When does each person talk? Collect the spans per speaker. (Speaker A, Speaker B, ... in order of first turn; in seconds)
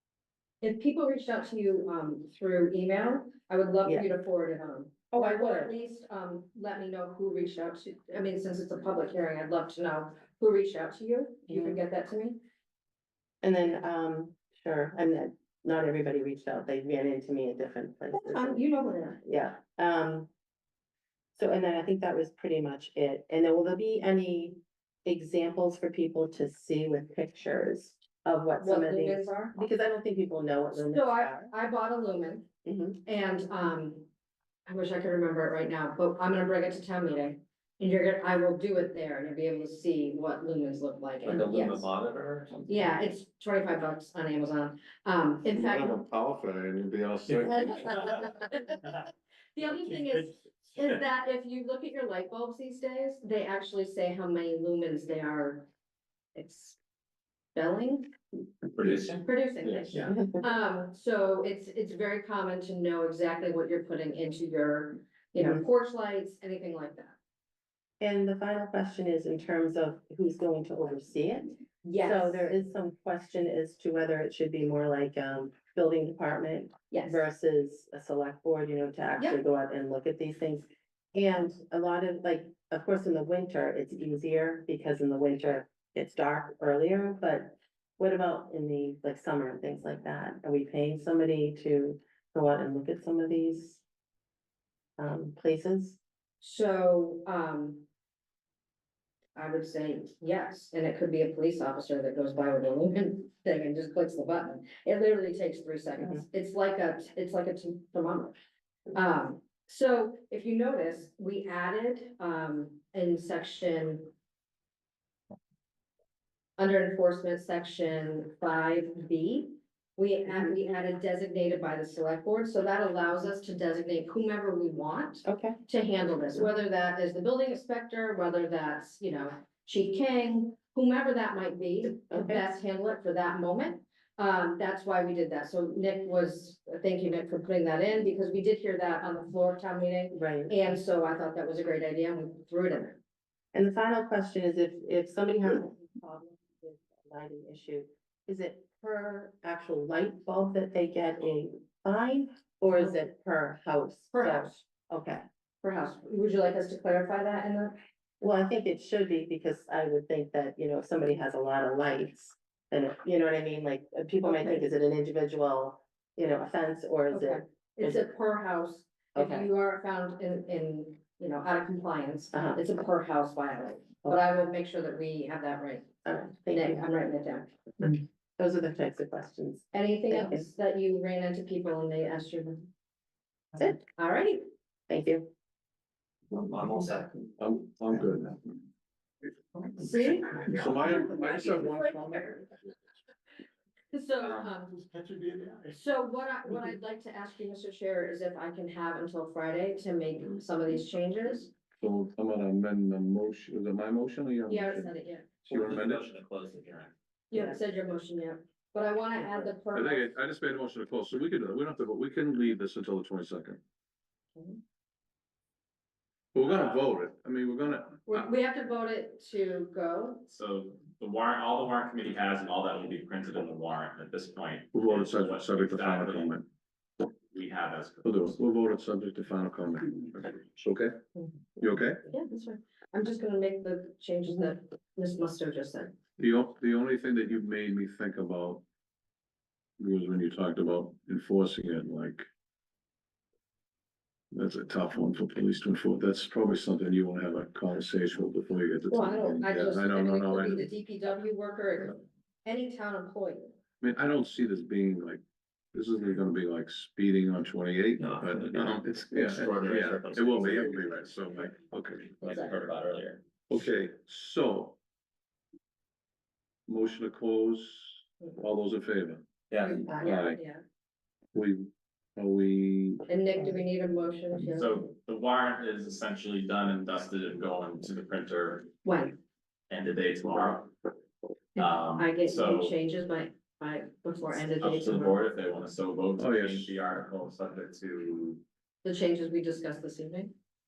Speaker A: 0.6-12.4, 18.1-19.2, 28.6-29.5, 30.8-32.5, 33.0-34.1, 34.6-41.9, 42.7-46.0, 47.5-48.8, 49.5-55.7, 56.3-56.8, 57.5-58.1, 59.2-67.2, 71.8-72.5, 76.9-77.2, 96.4-97.8, 99.3-108.4, 108.9-114.1, 116.6-143.0, 154.1-154.7, 155.6-157.8, 164.3-164.6, 167.1-175.9, 176.5-177.6, 179.7-182.7, 183.9-184.5, 189.8-192.5, 193.9-194.9, 195.5-201.5, 204.5-205.4, 207.3-210.2, 214.3-214.6, 218.1-220.3, 232.1-236.0, 248.9-253.5, 262.2-262.6, 269.6-270.6, 273.1-274.9, 278.8-279.2, 281.6-285.2, 288.8-290.3
Speaker B: 5.1-5.7, 11.5-11.8, 13.4-18.6, 19.2-20.3, 21.3-31.5, 32.6-33.0, 60.1-60.4, 68.0-93.8, 95.0-96.0, 106.0-106.2, 125.2-125.6, 132.1-132.4, 140.1-140.5, 143.5-155.2, 158.2-168.1, 169.1-169.5, 172.3-172.6, 176.0-176.9, 177.8-180.5, 183.6-183.8, 184.9-185.3, 269.9-270.1
Speaker C: 41.2-42.9, 47.3-48.1, 58.7-60.1, 186.3-187.3, 205.4-206.9, 258.0-261.0, 262.2-263.2, 269.5-269.9
Speaker D: 45.5-48.1, 187.4-188.4, 190.5-192.3, 201.8-204.9, 205.4-206.0, 209.7-213.6, 216.3-218.3, 224.7-226.4, 228.0-230.9, 231.6-232.0, 236.2-238.6, 239.8-242.3, 244.3-250.7, 253.8-255.2, 255.7-262.2, 263.5-264.8, 266.7-269.2, 270.0-270.4, 271.3-273.0, 286.2-286.8
Speaker E: 216.4-216.8, 220.3-226.4, 227.3-228.4, 274.5-278.7, 279.7-280.7, 281.6-282.7, 284.6-288.4